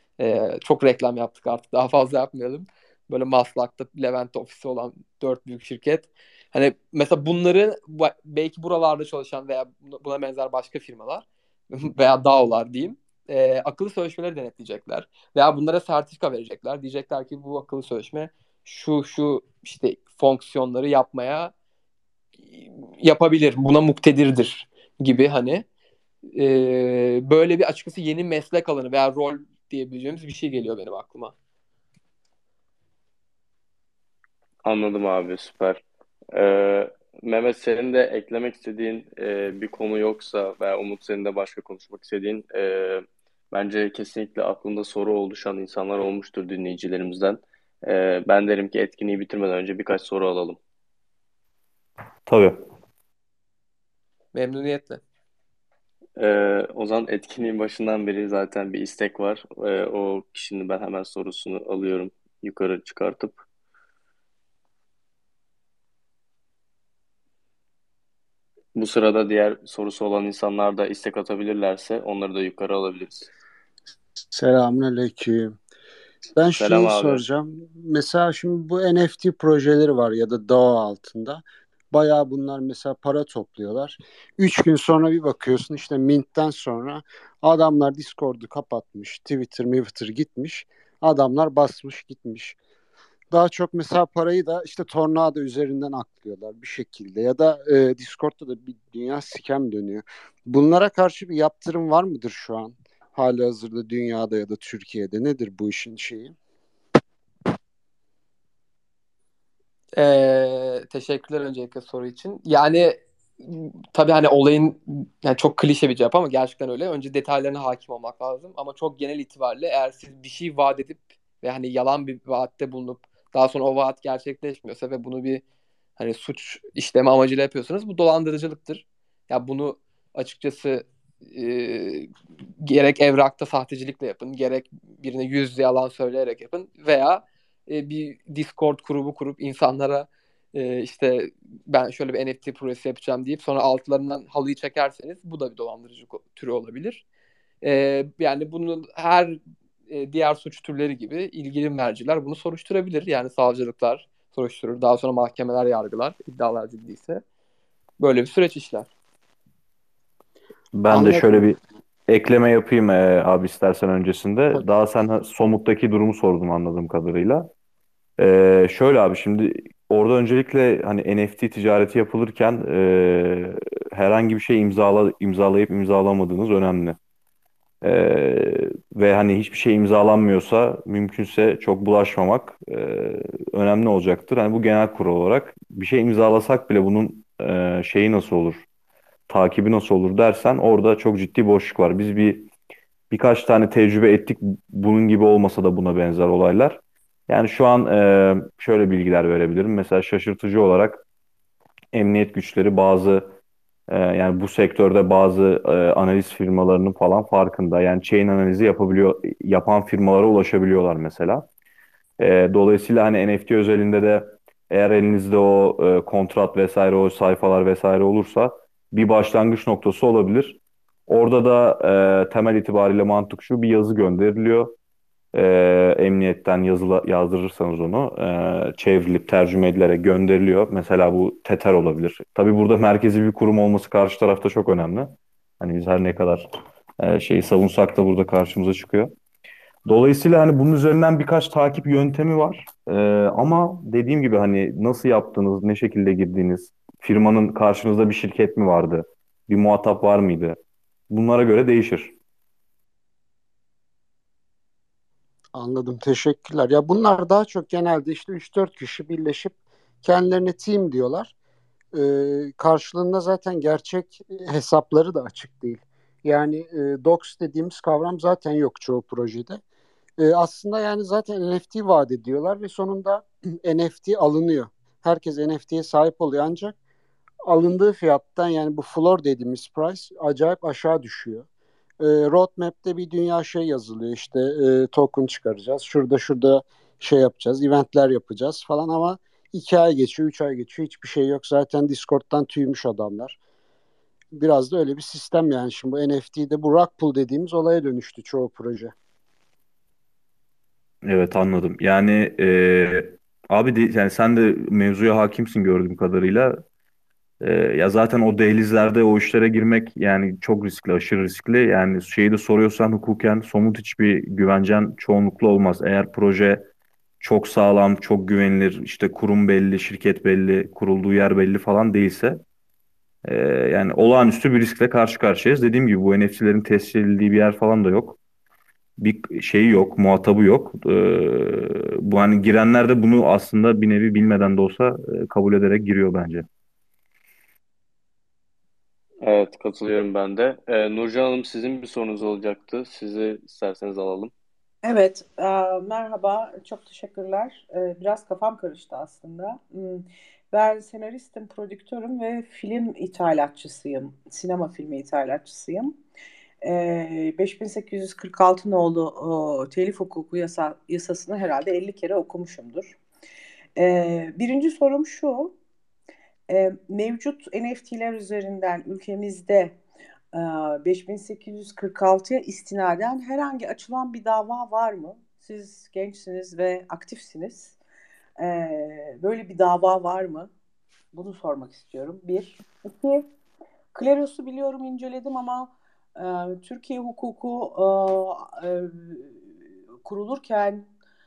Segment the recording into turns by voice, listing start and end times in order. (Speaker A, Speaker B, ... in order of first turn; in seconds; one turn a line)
Speaker A: 0.2-21.5
Speaker A: 22.5-25.6
Speaker A: 26.3-31.3
Speaker B: 34.6-35.8
Speaker B: 36.3-50.6
Speaker C: 52.3-52.6
Speaker A: 54.3-55.0
Speaker B: 56.2-63.4
Speaker B: 68.7-73.3
Speaker D: 74.3-75.5
Speaker D: 76.3-92.5
Speaker B: 76.5-77.2
Speaker D: 93.3-106.3
Speaker A: 110.0-125.4
Speaker A: 126.0-132.1
Speaker A: 132.6-147.0
Speaker A: 147.6-157.2
Speaker A: 158.0-158.9
Speaker C: 160.8-167.5
Speaker D: 160.9-161.5
Speaker C: 168.2-177.0
Speaker C: 177.8-188.6
Speaker C: 189.3-192.5
Speaker C: 193.1-201.0
Speaker C: 201.9-203.3
Speaker C: 203.9-211.4
Speaker C: 212.2-224.7
Speaker C: 225.3-236.5
Speaker C: 237.0-239.1
Speaker C: 239.8-250.6
Speaker C: 251.1-252.1
Speaker D: 255.5-261.3
Speaker D: 261.9-269.6
Speaker D: 270.2-276.8
Speaker D: 277.4-281.4
Speaker D: 282.0-293.4
Speaker D: 294.3-298.9
Speaker C: 301.0-306.6
Speaker C: 307.4-316.6
Speaker C: 317.2-322.4
Speaker C: 323.2-328.2
Speaker C: 329.0-336.4
Speaker B: 339.2-344.3
Speaker E: 344.8-356.0
Speaker E: 356.6-363.0
Speaker E: 363.8-365.5
Speaker E: 366.5-369.8
Speaker E: 370.3-377.8
Speaker E: 378.4-380.5
Speaker E: 381.1-383.2
Speaker E: 383.9-389.4
Speaker E: 390.0-390.9